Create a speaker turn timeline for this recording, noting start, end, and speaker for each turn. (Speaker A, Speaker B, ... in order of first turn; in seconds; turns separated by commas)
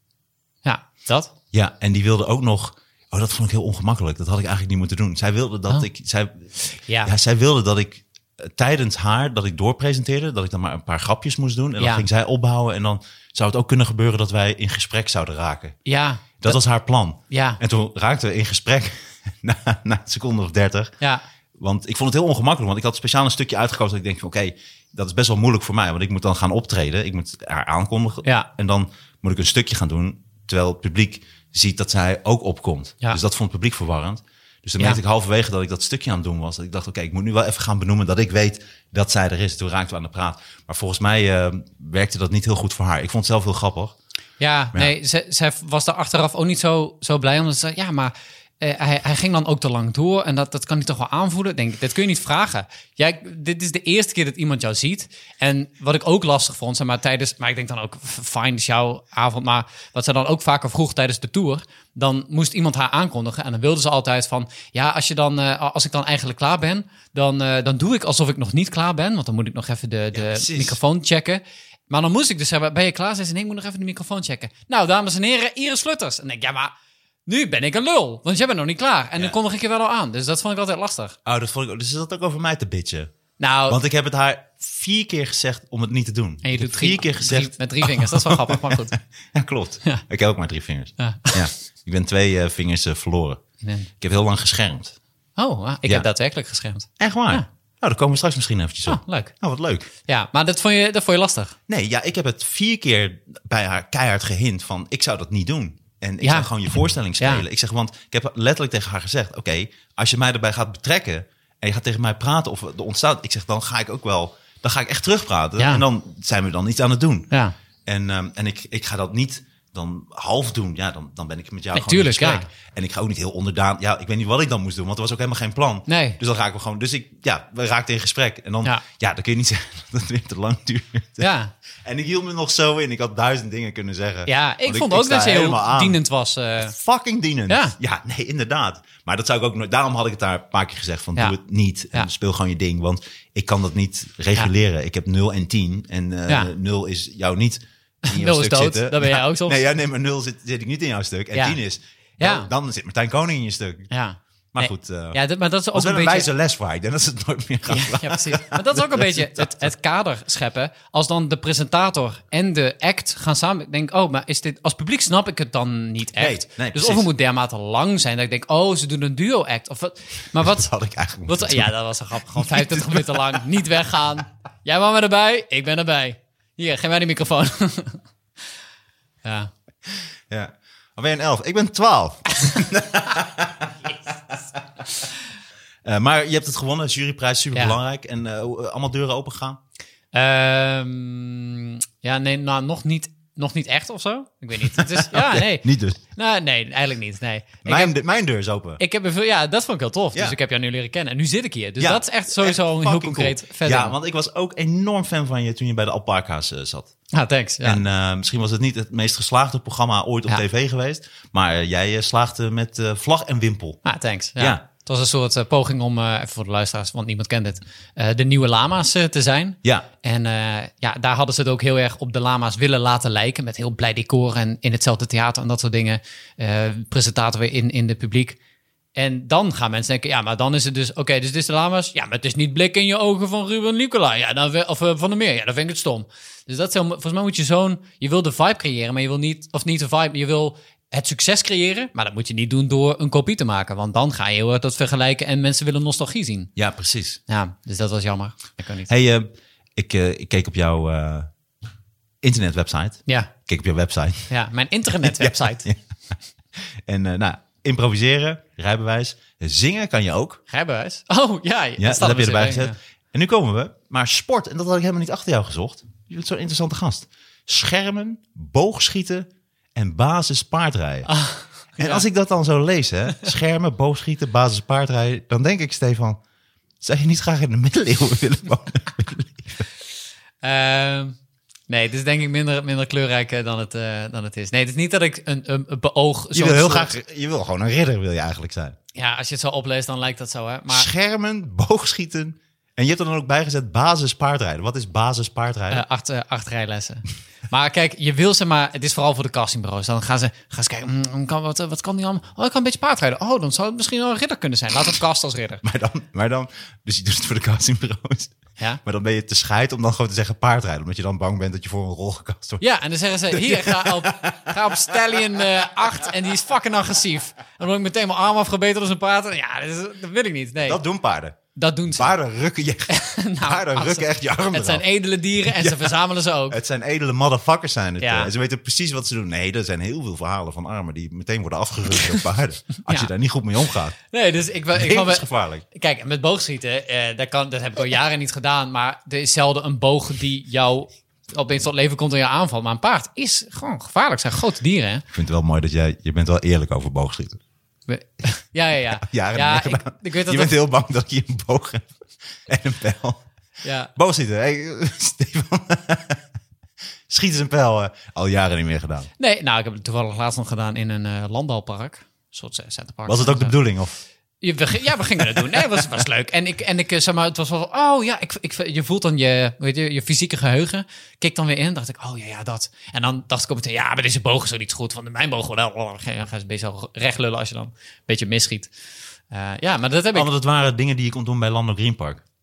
Speaker A: 0.6-1.3, Speaker B: 1.5-15.8, Speaker A: 6.8-7.1, Speaker A: 11.8-12.1, Speaker A: 15.8-16.6, Speaker B: 16.4-20.9, Speaker A: 17.3-17.6, Speaker B: 21.6-43.9, Speaker A: 44.4-76.7, Speaker B: 70.1-70.8, Speaker A: 77.3-81.2, Speaker B: 81.2-83.1, Speaker A: 83.4-83.8, Speaker B: 83.7-93.4, Speaker A: 86.4-89.0, Speaker A: 91.0-91.5, Speaker A: 93.6-93.9, Speaker B: 94.0-94.9, Speaker A: 95.4-97.4, Speaker B: 97.0-99.9, Speaker A: 98.9-99.3, Speaker A: 100.1-101.5, Speaker B: 101.7-117.3, Speaker A: 106.2-106.5, Speaker A: 107.2-107.4, Speaker A: 115.6-115.8, Speaker B: 117.8-131.3, Speaker A: 121.7-122.5, Speaker A: 125.9-126.2, Speaker A: 131.2-131.5, Speaker B: 131.8-136.0, Speaker A: 134.2-136.7, Speaker B: 136.6-153.9, Speaker A: 137.5-137.8, Speaker A: 146.3-146.5, Speaker A: 148.0-149.6, Speaker A: 152.2-152.5, Speaker A: 153.9-156.3, Speaker B: 154.5-155.2, Speaker B: 155.7-159.7, Speaker A: 157.7-170.7, Speaker B: 166.2-167.1, Speaker B: 170.3-171.7, Speaker A: 171.3-178.0, Speaker B: 172.3-173.4, Speaker A: 179.2-179.5, Speaker B: 180.3-184.8, Speaker B: 185.8-189.6, Speaker A: 190.1-197.9, Speaker B: 194.6-196.0, Speaker B: 197.6-198.8, Speaker A: 198.8-203.9, Speaker B: 201.8-206.9, Speaker A: 207.1-207.8, Speaker B: 207.6-213.8, Speaker A: 213.8-228.4, Speaker B: 214.4-214.6, Speaker A: 228.9-246.5, Speaker B: 246.6-247.2, Speaker A: 247.3-248.9, Speaker B: 248.9-251.3, Speaker B: 252.2-254.3, Speaker A: 254.3-255.7, Speaker B: 255.0-255.8, Speaker B: 256.6-260.4, Speaker A: 260.5-262.8, Speaker B: 261.8-271.1, Speaker A: 271.1-272.1, Speaker B: 271.8-276.2, Speaker B: 276.8-279.6, Speaker A: 280.4-281.2, Speaker A: 281.7-286.9, Speaker B: 286.3-288.8, Speaker A: 288.9-290.9, Speaker B: 290.7-295.8, Speaker A: 295.7-305.6, Speaker B: 305.6-312.6, Speaker A: 312.6-320.8, Speaker B: 313.3-315.9, Speaker B: 320.6-321.4, Speaker A: 321.5-322.1, Speaker B: 321.9-324.8, Speaker A: 322.9-326.6, Speaker B: 325.4-326.0, Speaker B: 326.5-334.0, Speaker A: 328.0-328.3, Speaker A: 334.1-345.0, Speaker B: 334.7-335.6, Speaker B: 345.1-347.4, Speaker A: 347.9-350.5, Speaker B: 348.9-353.2, Speaker A: 353.6-353.9, Speaker B: 353.9-356.2, Speaker B: 357.1-359.1, Speaker A: 359.2-363.6, Speaker B: 363.1-364.0, Speaker A: 364.4-378.7, Speaker B: 365.2-365.9, Speaker A: 379.3-380.3, Speaker B: 380.1-382.2